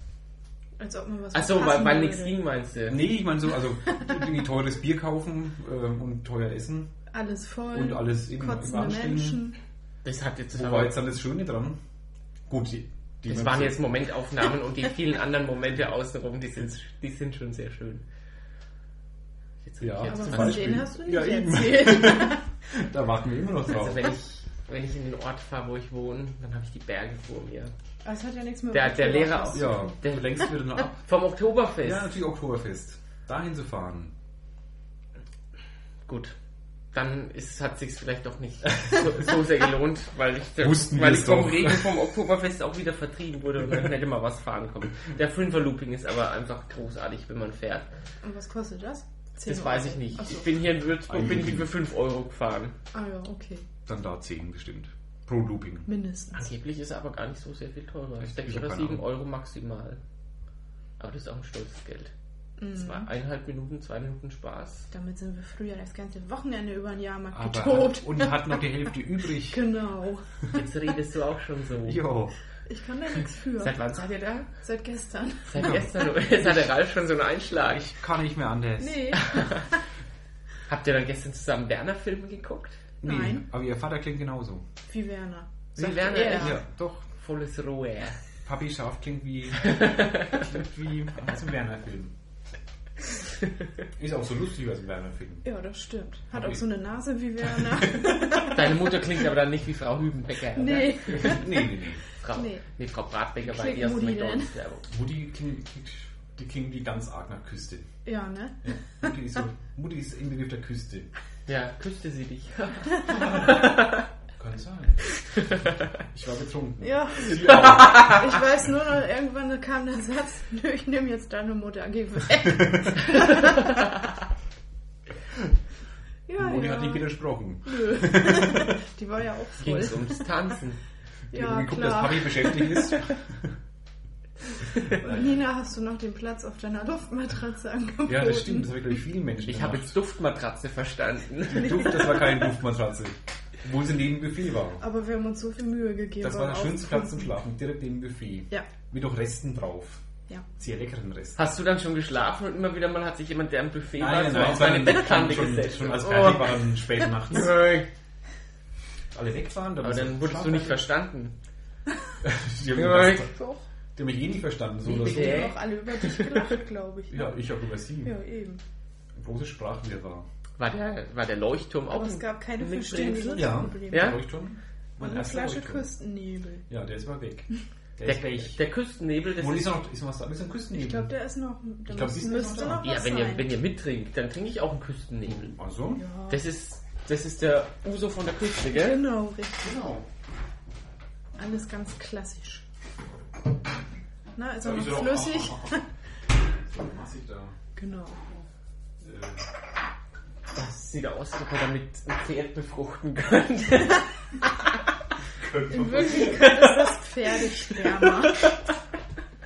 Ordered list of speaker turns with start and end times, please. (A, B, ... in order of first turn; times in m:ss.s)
0:00.8-0:02.4 A
0:01.3-0:03.0 B
0:02.9-0:06.9 C
0:07.1-0:09.6 A
0:07.7-0:09.4 C
0:10.0-0:11.0 B
0:10.5-0:11.8 C
0:12.5-0:13.8 C
0:13.2-0:18.0 B
0:19.6-0:20.8 B
0:19.8-0:24.1 C
0:20.1-0:22.5 A
0:23.7-0:27.7 B
0:28.0-0:29.9 A
0:28.7-0:32.1 B
0:29.5-0:31.0 C
0:31.8-0:34.1 C
0:36.0-0:36.4 B
0:36.9-0:47.9 B
0:40.6-0:41.9 C
0:48.2-0:50.4 A
0:49.4-0:52.8 B
0:51.1-0:51.7 C
0:52.9-0:53.6 A
0:53.8-0:55.9 C
0:55.8-0:56.4 A
0:56.3-1:00.0 B
0:58.2-0:59.0 C
1:01.0-1:02.1 B
1:02.6-1:03.1 A
1:02.7-1:04.9 B
1:04.9-1:08.7 A
1:07.3-1:09.6 C
1:09.4-1:10.4 A
1:10.5-1:12.0 B
1:11.8-1:12.3 C
1:12.7-1:13.7 A
1:13.6-1:14.5 B
1:14.6-1:15.7 A
1:15.4-1:17.9 B
1:15.6-1:16.5 C
1:17.6-1:19.2 C
1:18.8-1:19.6 A
1:19.1-1:19.8 B
1:20.7-1:22.8 B
1:23.0-1:24.6 C
1:23.0-1:23.4 A
1:24.9-1:26.6 A
1:25.8-1:28.2 B
1:26.2-1:27.0 C
1:28.4-1:32.1 C
1:29.6-1:30.4 B
1:34.0-1:35.4 C
1:35.4-1:39.0 A
1:36.3-1:36.6 C
1:37.5-1:38.3 C
1:38.5-1:41.4 B
1:40.5-1:41.7 A
1:41.1-1:42.0 C
1:42.2-1:44.9 B
1:42.3-1:42.6 A
1:43.4-1:44.5 A
1:44.9-1:47.9 C
1:48.0-1:48.6 A
1:48.6-1:51.1 C
1:51.5-1:54.1 B
1:53.2-1:53.6 C
1:54.4-1:55.0 C
1:56.0-1:58.3 C
1:56.8-2:03.9 A
1:57.3-1:58.2 B
2:06.3-2:07.1 A
2:06.4-2:08.8 C
2:07.6-2:10.3 A
2:09.6-2:10.8 B
2:11.3-2:13.0 A
2:11.3-2:13.5 C
2:14.9-2:15.4 C
2:14.9-2:18.8 A
2:18.0-2:20.0 C
2:19.5-2:22.2 B
2:21.5-2:24.8 C
2:24.8-2:27.3 A
2:26.2-2:30.0 C
2:30.6-2:31.4 C
2:31.4-2:37.9 B
2:34.0-2:37.6 C
2:39.1-2:40.9 C
2:39.8-2:41.3 B
2:42.2-2:43.3 C
2:42.7-2:43.5 B
2:43.9-2:45.5 C
2:44.8-2:46.5 B
2:44.8-2:47.4 A
2:47.1-2:48.1 C
2:48.0-2:48.6 A
2:49.1-2:50.2 C
2:50.6-2:54.2 B
2:51.9-2:54.2 A
2:53.3-2:55.8 C
2:55.0-2:56.6 A
2:56.7-2:58.6 C
2:58.0-2:59.7 B
2:59.4-3:01.1 C
3:00.7-3:03.5 A
3:01.9-3:02.8 C
3:02.7-3:05.5 B
3:05.3-3:06.0 C
3:06.0-3:06.4 A
3:06.3-3:09.0 B
3:08.7-3:09.7 A
3:09.6-3:10.0 C
3:11.4-3:12.6 A
3:14.3-3:15.8 A
3:14.6-3:15.8 C
3:16.4-3:17.5 C
3:17.8-3:18.2 A
3:19.0-3:19.5 C
3:20.5-3:24.1 B
3:25.3-3:26.6 C
3:25.7-3:28.5 A
3:26.1-3:26.9 B
3:27.6-3:28.6 B